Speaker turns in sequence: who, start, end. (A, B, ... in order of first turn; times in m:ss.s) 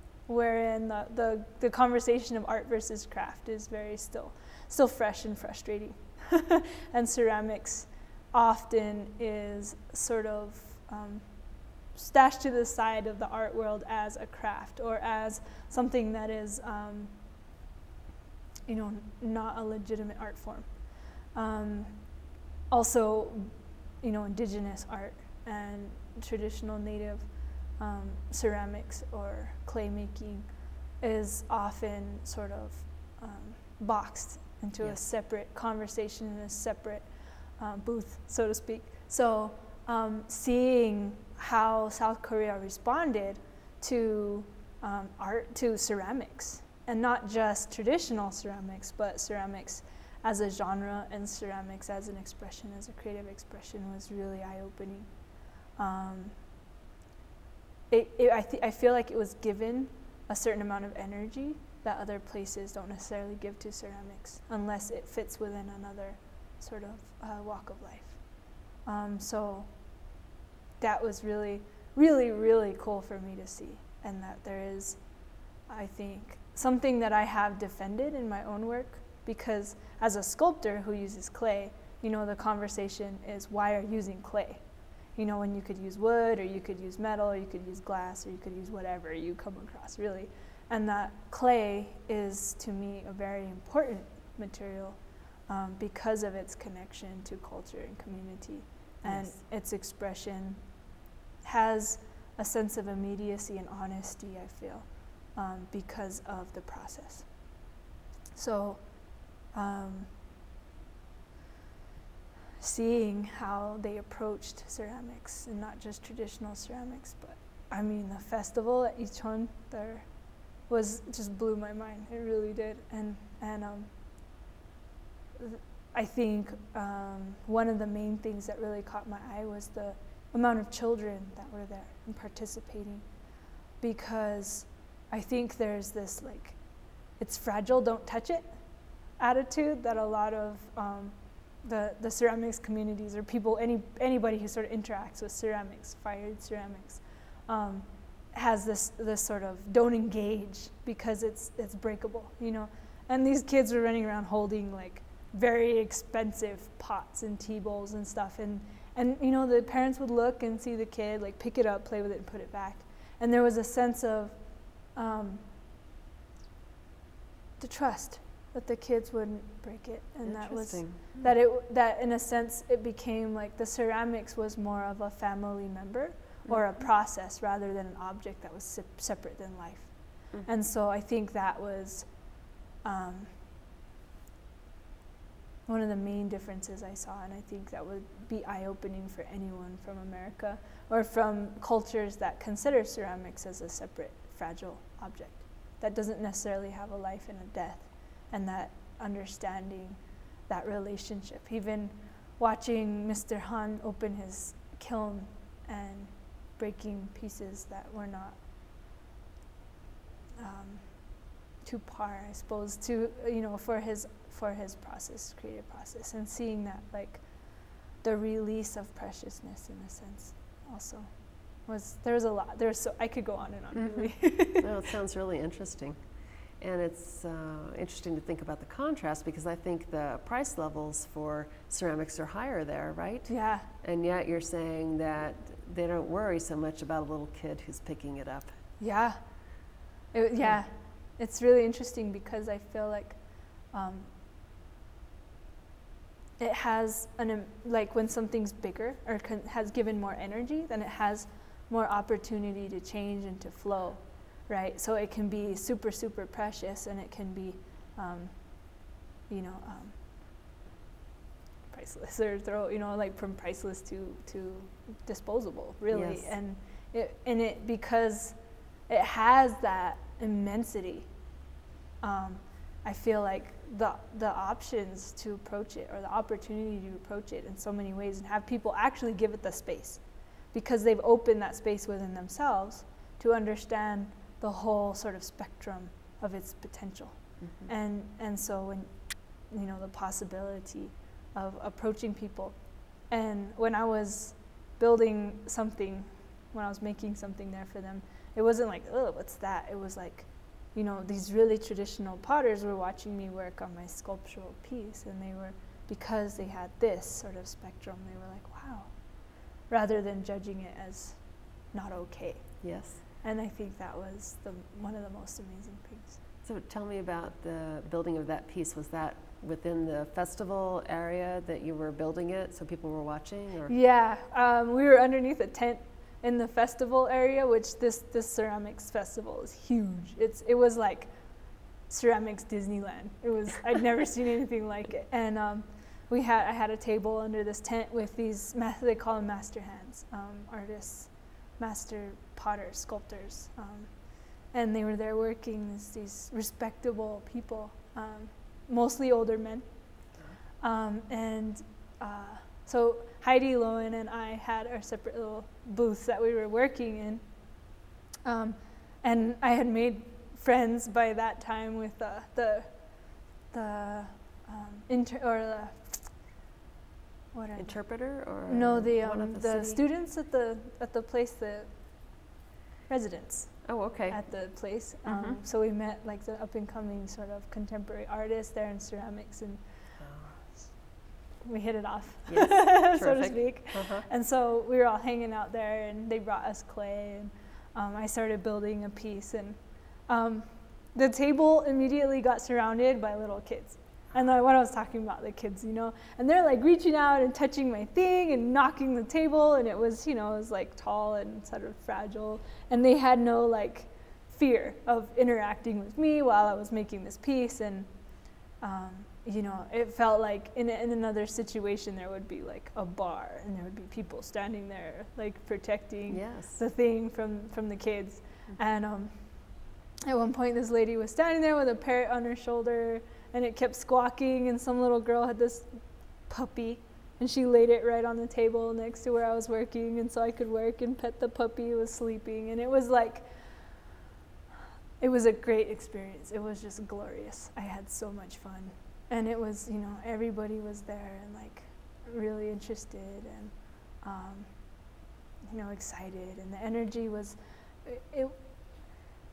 0:00.2-0:17.2 A
0:18.6-0:56.5 A
0:57.9-1:10.0 A
1:10.8-1:40.9 A
1:39.0-1:39.3 B
1:41.4-1:47.6 A
1:48.3-1:50.2 A
1:52.6-2:04.0 A
2:05.4-2:45.5 A
2:47.6-3:03.4 A
2:50.2-2:51.3 B
3:05.6-3:28.4 A
3:30.4-3:44.8 A
3:43.7-3:58.6 B
3:53.3-3:53.7 A
3:58.8-4:04.1 A
4:06.4-4:20.1 A
4:21.7-4:31.3 A
4:25.9-4:26.4 B
4:32.0-5:16.2 A
4:47.4-4:47.7 B
5:12.6-5:13.0 B
5:16.4-5:23.7 B
5:23.7-6:06.3 A
6:07.3-6:12.3 A
6:07.6-6:09.8 B
6:12.9-6:20.0 A
6:13.6-6:15.4 B
6:20.0-6:20.4 B
6:20.6-6:20.8 A
6:21.4-7:13.9 A
6:22.3-6:24.1 B
6:56.1-6:56.6 B
7:15.0-7:28.9 A